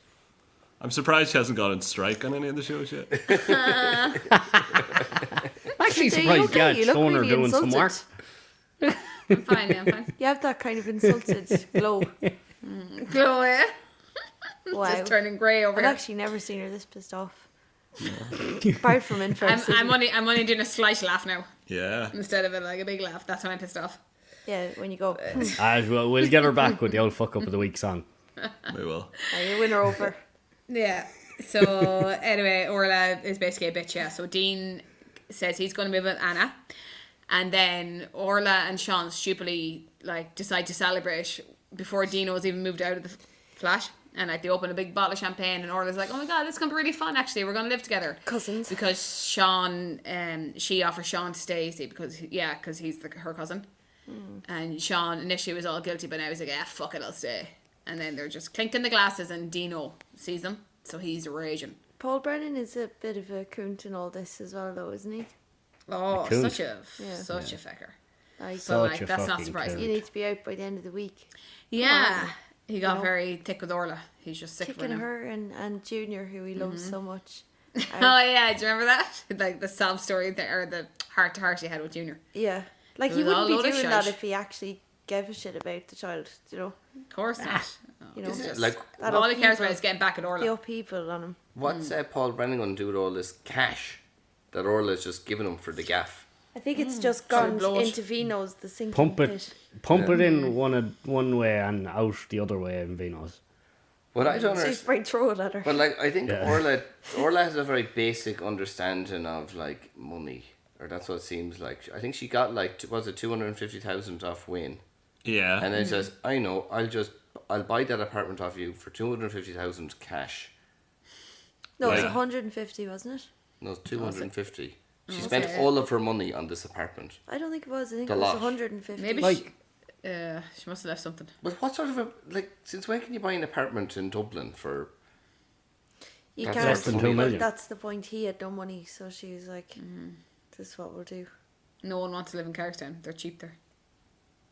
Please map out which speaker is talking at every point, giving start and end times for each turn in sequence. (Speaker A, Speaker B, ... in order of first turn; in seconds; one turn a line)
Speaker A: 0.8-3.6
Speaker B: 3.3-4.2
Speaker C: 4.3-5.0
Speaker C: 5.7-8.0
Speaker D: 5.8-8.0
Speaker C: 8.8-9.4
Speaker B: 9.3-10.1
Speaker D: 10.2-12.1
Speaker C: 12.0-12.3
Speaker B: 12.6-13.7
Speaker B: 14.7-16.0
Speaker D: 14.7-15.2
Speaker D: 15.7-17.4
Speaker A: 18.0-18.3
Speaker D: 18.6-20.0
Speaker B: 19.4-21.5
Speaker A: 21.7-22.1
Speaker B: 22.1-24.0
Speaker D: 24.4-25.6
Speaker B: 25.3-25.6
Speaker C: 25.6-28.0
Speaker A: 28.7-29.1
Speaker D: 29.3-30.2
Speaker B: 30.7-36.6
Speaker B: 37.3-53.7
Speaker D: 48.2-48.7
Speaker D: 54.1-54.4
Speaker B: 54.4-61.8
Speaker D: 62.0-65.3
Speaker B: 65.9-68.0
Speaker C: 66.1-66.6
Speaker D: 67.0-67.2
Speaker C: 67.3-67.6
Speaker D: 68.4-68.8
Speaker C: 68.6-70.0
Speaker B: 68.6-70.0
Speaker D: 69.7-72.3
Speaker B: 71.7-75.0
Speaker D: 72.8-73.1
Speaker D: 74.6-78.2
Speaker B: 76.5-77.0
Speaker B: 77.8-82.2
Speaker D: 82.3-86.8
Speaker B: 83.1-84.1
Speaker B: 87.1-90.5
Speaker D: 88.2-89.8
Speaker E: 88.2-89.0
Speaker D: 90.3-91.4
Speaker E: 91.5-96.2
Speaker B: 91.6-91.9
Speaker D: 96.5-99.5
Speaker B: 96.8-98.0
Speaker C: 98.9-103.4
Speaker B: 100.1-100.5
Speaker E: 104.1-104.9
Speaker B: 104.3-104.6
Speaker D: 104.5-105.8
Speaker E: 105.6-114.8
Speaker C: 106.3-106.7
Speaker A: 115.2-115.7
Speaker E: 115.6-120.5
Speaker B: 115.8-116.0
Speaker D: 121.8-123.3
Speaker A: 121.8-122.2
Speaker E: 121.8-122.1
Speaker E: 123.6-127.2
Speaker B: 125.1-125.7
Speaker D: 125.2-125.6
Speaker D: 127.3-129.4
Speaker E: 128.1-128.6
Speaker B: 129.0-131.3
Speaker E: 131.4-134.9
Speaker D: 136.3-139.8
Speaker E: 136.4-137.4
Speaker C: 136.4-137.4
Speaker B: 139.8-140.2
Speaker D: 140.5-141.3
Speaker B: 141.8-143.6